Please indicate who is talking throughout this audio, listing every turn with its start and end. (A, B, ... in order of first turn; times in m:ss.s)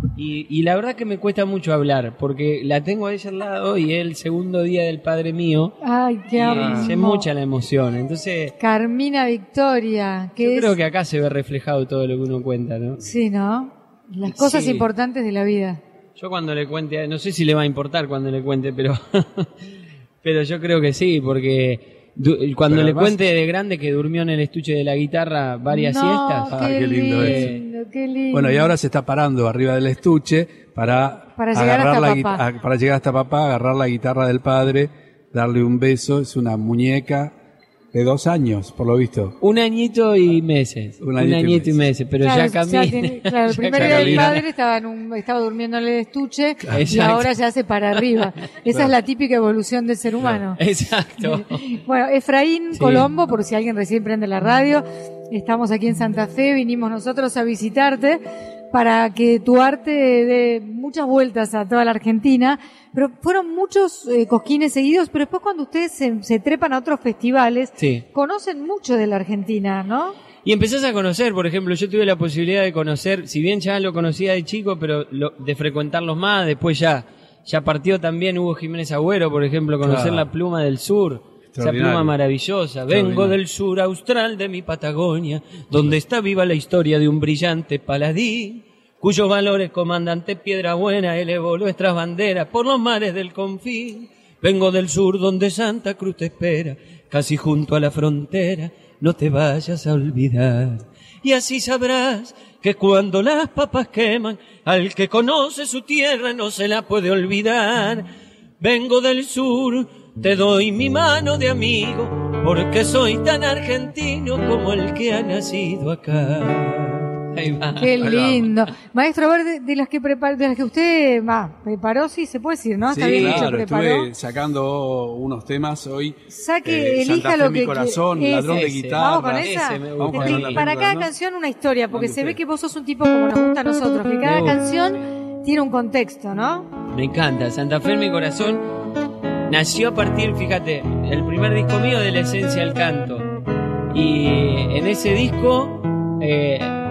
0:00.2-0:05.8 A
0:05.8-0:07.3 B
0:06.3-0:08.6 A
0:06.6-0:06.9 C
0:08.6-0:10.8 B
0:10.4-0:13.0 A
0:13.0-0:15.8 B
0:14.2-0:14.9 A
0:16.2-0:19.5 A
0:20.2-0:27.6 A
0:22.7-0:23.2 C
0:25.7-0:28.7 B
0:26.5-0:27.5 C
0:28.3-0:37.3 C
0:31.4-0:32.4 B
0:37.9-0:39.4 C
0:39.4-0:44.4 A
0:41.0-0:41.8 C
0:42.2-0:50.6 B
0:43.7-0:44.4 C
0:46.7-0:47.3 A
0:48.0-0:48.2 A
0:50.6-0:51.7 A
0:51.2-1:10.2 B
0:52.7-0:53.1 A
1:07.8-1:08.0 A
1:10.4-1:48.1 A
1:19.8-1:20.3 C
1:21.5-1:22.1 C
1:22.9-1:23.4 C
1:48.6-1:58.0 A
1:57.8-2:04.1 B
1:58.0-1:58.5 C
2:02.9-2:11.1 C
2:03.1-2:03.5 A
2:06.3-2:16.7 B
2:08.4-2:10.7 A
2:11.9-2:12.4 C
2:14.2-2:14.6 A
2:16.9-2:18.7 A
2:19.5-2:23.3 A
2:23.9-2:26.7 A